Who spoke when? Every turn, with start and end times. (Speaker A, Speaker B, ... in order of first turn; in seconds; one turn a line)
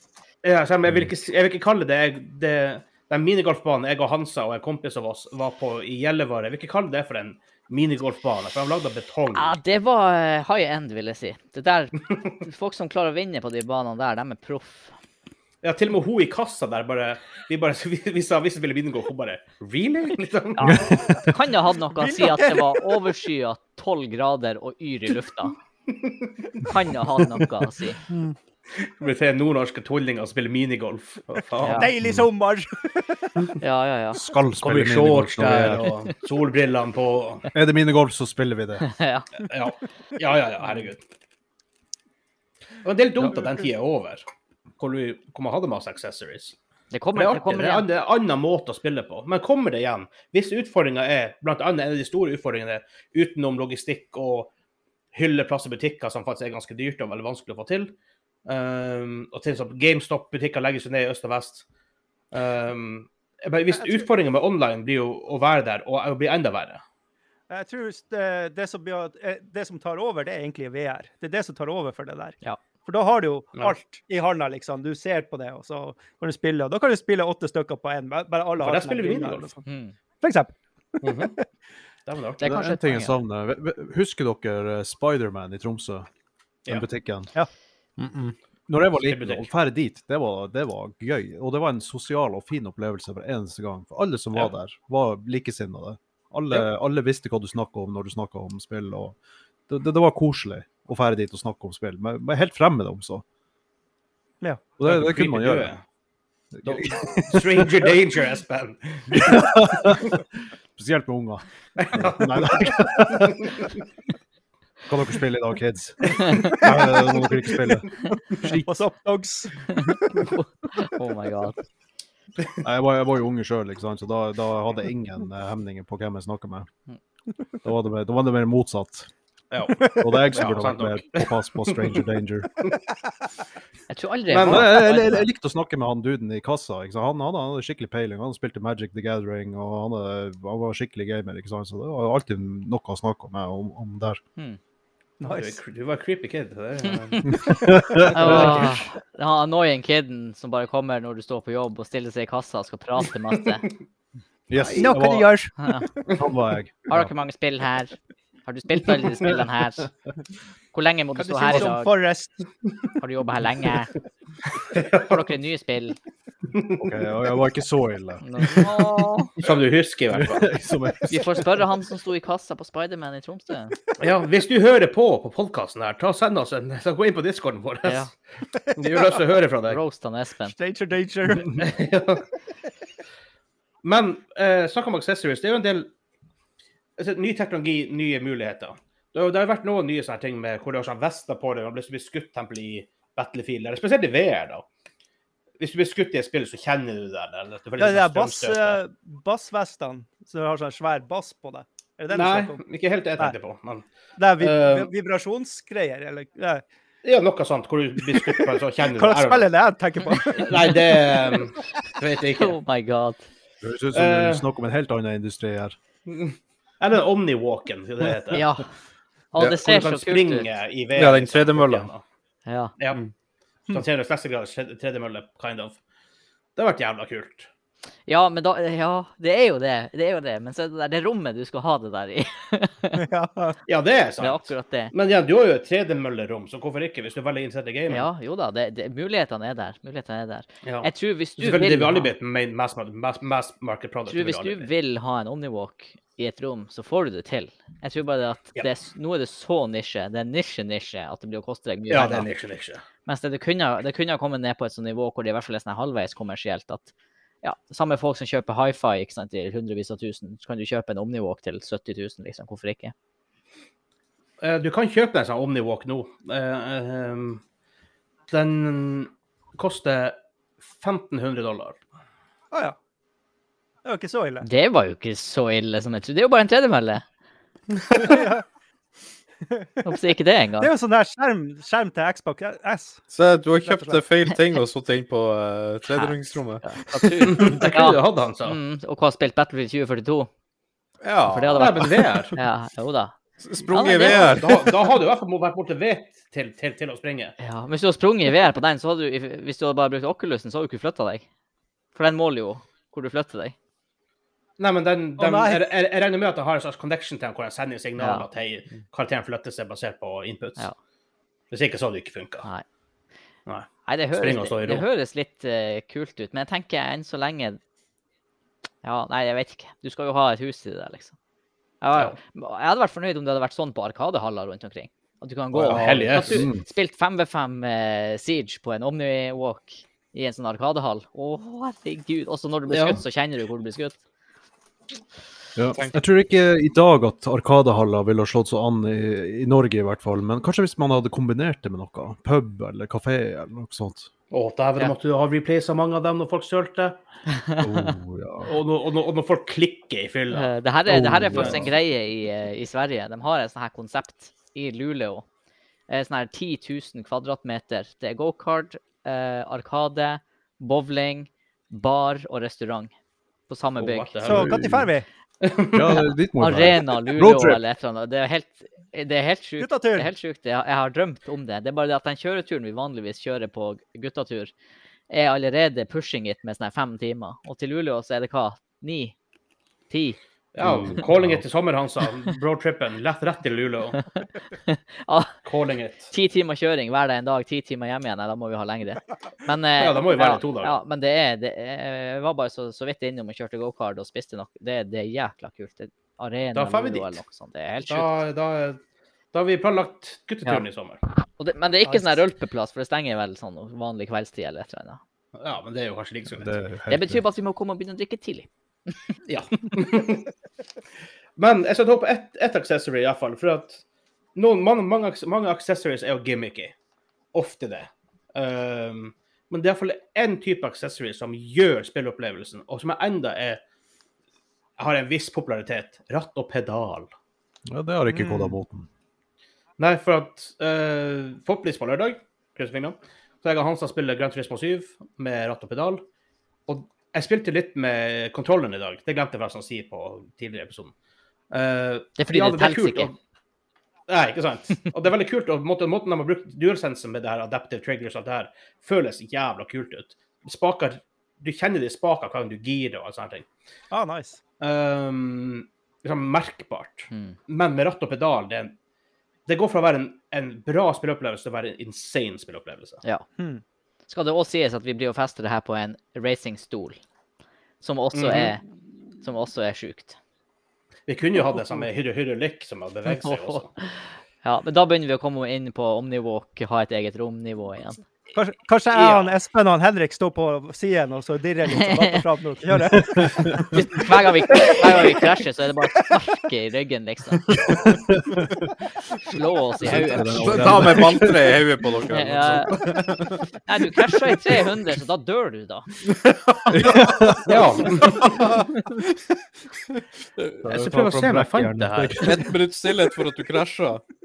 Speaker A: 0.4-9.6
Speaker B: 9.3-14.9
Speaker A: 15.6-20.9
Speaker B: 20.6-25.5
Speaker C: 20.6-21.0
Speaker D: 20.9-21.2
Speaker D: 22.0-22.9
Speaker A: 25.9-26.3
Speaker B: 26.6-28.0
Speaker A: 28.8-31.9
Speaker B: 31.6-31.9
Speaker D: 31.7-33.4
Speaker C: 32.0-32.3
Speaker B: 33.6-34.2
Speaker C: 34.1-35.9
Speaker A: 34.6-37.5
Speaker C: 37.5-38.9
Speaker B: 38.8-39.3
Speaker A: 39.5-41.0
Speaker A: 42.8-44.2
Speaker A: 44.8-46.6
Speaker B: 46.9-47.9
Speaker A: 47.1-54.5
Speaker A: 55.1-57.9
Speaker A: 58.5-61.6
Speaker A: 62.3-66.8
Speaker D: 63.7-64.0
Speaker D: 67.5-79.6
Speaker A: 78.6-79.5
Speaker B: 79.7-79.9
Speaker D: 80.2-81.3
Speaker A: 81.0-81.4
Speaker A: 82.1-82.6
Speaker B: 82.4-83.2
Speaker C: 82.4-86.1
Speaker C: 86.7-87.3
Speaker E: 88.0-88.3
Speaker C: 88.7-99.2
Speaker A: 89.0-89.5
Speaker C: 99.7-103.2
Speaker C: 104.8-105.7
Speaker A: 104.8-105.8
Speaker C: 106.5-107.8
Speaker A: 106.7-110.1
Speaker C: 109.1-113.7
Speaker A: 111.8-113.7
Speaker C: 114.9-118.7
Speaker D: 116.4-116.8
Speaker A: 116.7-117.7
Speaker D: 118.7-119.8
Speaker B: 119.8-121.6
Speaker C: 122.6-126.7
Speaker C: 127.6-129.1
Speaker A: 129.5-132.0
Speaker C: 129.9-132.5
Speaker B: 133.9-135.3
Speaker A: 134.3-134.8
Speaker C: 134.4-144.2
Speaker D: 145.2-145.6
Speaker A: 145.2-148.8
Speaker B: 146.8-153.7
Speaker C: 147.3-148.7
Speaker C: 154.5-155.3
Speaker D: 154.6-155.6
Speaker B: 155.6-155.9
Speaker C: 156.1-157.1
Speaker B: 156.9-159.9
Speaker B: 160.7-161.9
Speaker D: 161.2-162.4
Speaker B: 163.0-163.9
Speaker A: 164.7-165.2
Speaker B: 165.0-166.0
Speaker A: 166.5-166.8
Speaker C: 166.8-168.7
Speaker B: 168.2-169.3
Speaker A: 169.4-170.5
Speaker C: 170.1-171.6
Speaker B: 171.1-173.8
Speaker A: 174.0-178.1
Speaker B: 177.8-178.1
Speaker A: 178.7-179.8
Speaker B: 179.7-180.5
Speaker D: 180.5-181.7
Speaker A: 181.4-182.2
Speaker A: 183.8-185.9
Speaker A: 187.0-194.7
Speaker A: 195.6-198.8
Speaker D: 197.8-202.6
Speaker A: 202.1-203.8
Speaker D: 204.2-206.6
Speaker A: 204.4-204.9
Speaker A: 207.0-209.5
Speaker D: 208.1-211.4
Speaker A: 210.3-212.6
Speaker B: 212.4-213.3
Speaker C: 213.6-215.8
Speaker A: 213.9-214.4
Speaker A: 216.1-218.4
Speaker B: 218.3-218.7
Speaker B: 219.3-220.5
Speaker A: 219.6-222.0
Speaker E: 221.0-221.9
Speaker B: 222.5-222.7
Speaker A: 223.7-225.8
Speaker A: 226.6-227.5
Speaker B: 228.1-233.0
Speaker D: 233.0-233.6
Speaker A: 233.7-238.1
Speaker B: 234.2-234.9
Speaker B: 237.9-242.1
Speaker A: 240.6-244.7
Speaker B: 244.1-252.3
Speaker A: 251.9-252.8
Speaker B: 253.1-256.9
Speaker B: 257.4-262.9
Speaker A: 264.4-267.4
Speaker A: 268.3-270.2
Speaker A: 270.8-271.8
Speaker D: 273.9-274.5
Speaker B: 274.4-277.0
Speaker D: 277.9-278.4
Speaker D: 279.6-279.9
Speaker B: 279.9-280.7
Speaker D: 280.6-283.1
Speaker E: 283.1-287.5
Speaker D: 283.6-284.0
Speaker B: 285.9-290.3
Speaker A: 287.3-288.6
Speaker E: 291.0-292.0
Speaker B: 291.3-293.2
Speaker A: 291.5-292.4
Speaker E: 293.4-294.9
Speaker B: 293.7-294.4
Speaker A: 294.1-297.4
Speaker B: 297.4-301.3
Speaker B: 301.9-303.6
Speaker A: 304.6-310.7
Speaker D: 305.2-305.7
Speaker B: 308.0-308.2
Speaker A: 311.5-312.5
Speaker A: 313.5-314.9
Speaker B: 313.9-317.6
Speaker B: 318.8-321.1
Speaker B: 321.8-334.0
Speaker A: 325.6-326.5
Speaker C: 325.7-326.6
Speaker A: 332.7-333.0
Speaker C: 335.6-344.1
Speaker A: 344.3-347.0
Speaker B: 347.3-347.9
Speaker C: 347.6-348.6
Speaker A: 348.5-350.5
Speaker B: 350.3-355.2
Speaker C: 350.9-351.7
Speaker A: 351.3-351.6
Speaker B: 355.9-362.9
Speaker B: 363.5-364.2
Speaker A: 363.8-364.6
Speaker C: 364.2-364.9
Speaker D: 364.2-365.1
Speaker A: 365.4-366.0
Speaker C: 365.7-367.6
Speaker B: 366.4-374.5
Speaker D: 369.6-370.1
Speaker B: 375.1-379.1
Speaker B: 379.9-380.2
Speaker A: 380.5-384.0
Speaker C: 380.6-381.4
Speaker B: 384.1-385.3
Speaker A: 385.4-386.1
Speaker B: 386.1-398.1
Speaker A: 389.8-390.8
Speaker A: 396.6-397.2
Speaker A: 397.9-398.8
Speaker A: 399.3-401.0
Speaker B: 401.4-405.0
Speaker D: 401.9-402.2
Speaker A: 405.4-406.6
Speaker C: 406.3-407.2
Speaker B: 406.9-409.1
Speaker A: 409.3-410.3
Speaker A: 411.4-413.8
Speaker A: 414.4-416.8
Speaker A: 417.3-423.6
Speaker A: 424.8-427.1
Speaker C: 427.7-428.9
Speaker D: 428.1-428.6
Speaker A: 429.8-436.0
Speaker A: 436.7-440.9
Speaker A: 441.5-443.2
Speaker B: 442.2-443.1
Speaker A: 444.1-453.5
Speaker D: 453.9-454.4
Speaker A: 454.6-458.8
Speaker B: 457.1-457.4
Speaker A: 459.5-463.0
Speaker B: 464.1-467.0
Speaker B: 467.8-468.6
Speaker A: 468.1-468.5
Speaker B: 469.2-470.2
Speaker A: 471.1-473.7
Speaker B: 473.1-478.0
Speaker D: 478.4-483.7
Speaker A: 478.9-479.4
Speaker B: 481.8-482.0
Speaker C: 482.9-483.7
Speaker B: 483.7-487.6
Speaker C: 487.7-488.7
Speaker B: 489.2-490.9
Speaker C: 489.8-491.5
Speaker E: 490.3-493.4
Speaker B: 492.1-492.8
Speaker B: 493.6-495.9
Speaker E: 496.2-497.4
Speaker C: 496.7-497.7
Speaker A: 497.5-498.5
Speaker E: 498.2-498.8
Speaker C: 500.6-502.6
Speaker A: 500.6-502.5
Speaker E: 502.2-504.0